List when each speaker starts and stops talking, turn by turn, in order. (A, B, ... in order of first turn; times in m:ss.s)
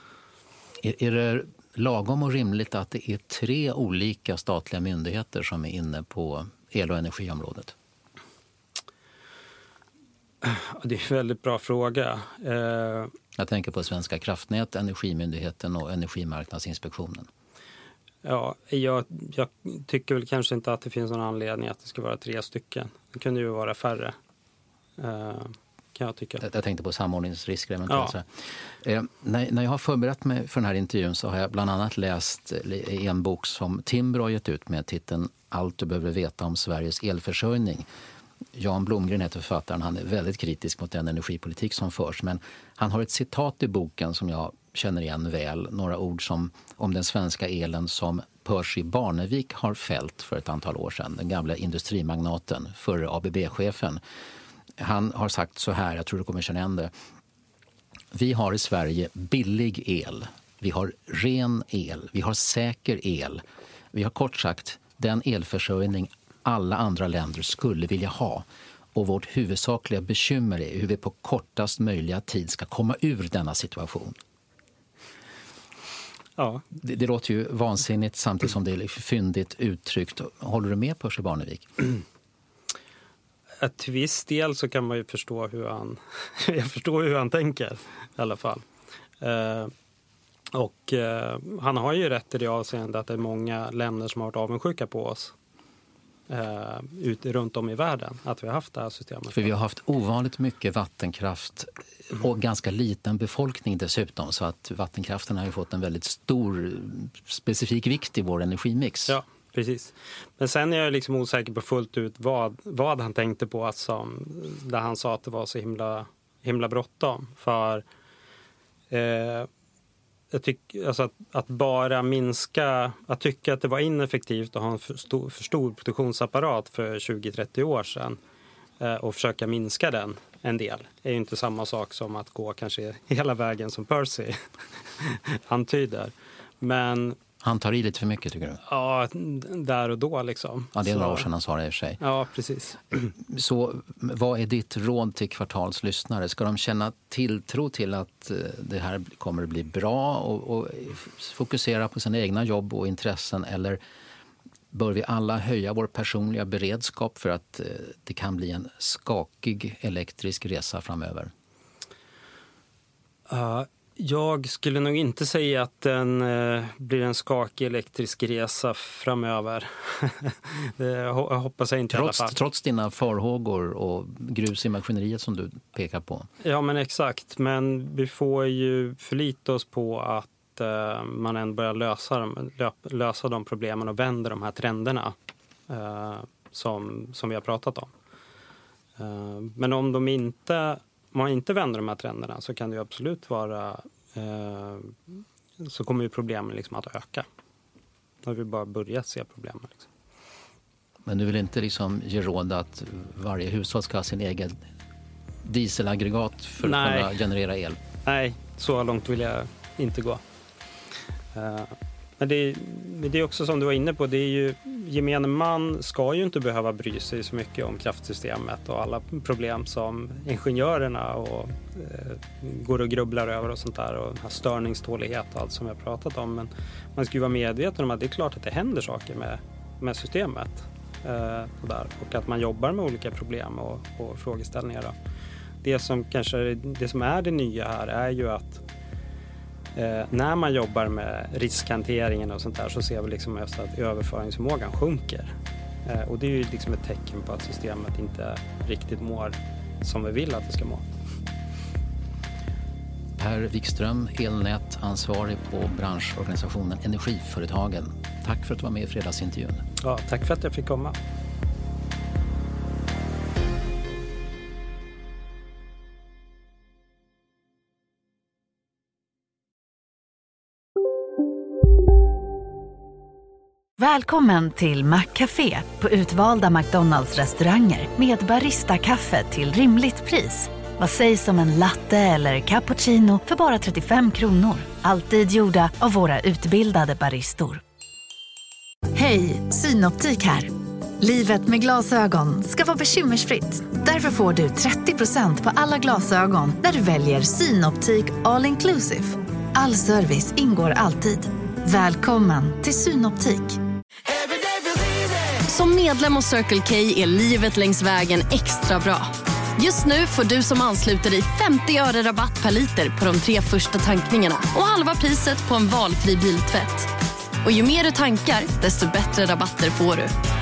0:00.8-0:07.7 A
0:10.4-0:13.1 B
0:13.4-0:17.3 A
0:18.2-0:24.2 B
0:25.0-0:26.4 B
0:26.4-0:37.9 A
0:27.9-0:28.1 B
0:38.5-0:54.0 A
0:54.8-0:56.9 A
0:58.1-1:14.2 A
1:16.4-1:16.6 B
1:16.7-1:21.8 A
1:23.6-1:28.6 B
1:29.2-1:29.7 B
1:30.5-1:35.3 B
1:36.3-1:39.5 B
1:39.3-1:49.2 A
1:49.1-1:57.8 B
1:58.9-1:59.5 B
2:00.3-2:08.2 B
2:08.8-2:17.2 B
2:17.4-2:18.6 A
2:18.6-2:21.3 B
2:20.7-2:22.0 A
2:22.0-2:23.1 B
2:23.2-2:33.8 A
2:34.7-2:41.3 A
2:43.3-2:52.4 B
2:51.9-2:56.3 A
2:56.4-3:05.2 B
3:05.7-3:07.9 B
3:09.0-3:15.0 B
3:15.6-3:17.3 B
3:18.2-3:19.9 B
3:21.0-3:24.6 A
3:25.4-3:27.8 A
3:26.6-3:27.2 B
3:28.0-3:30.2 B
3:31.3-3:54.9 B
3:55.6-3:58.6 B
3:59.7-4:05.3 B
4:05.8-4:10.9 B
4:13.2-4:19.6 A
4:19.8-4:21.0 B
4:33.8-4:47.6 C
4:48.9-5:03.6 C
5:05.4-5:16.9 D
5:17.4-5:20.1 D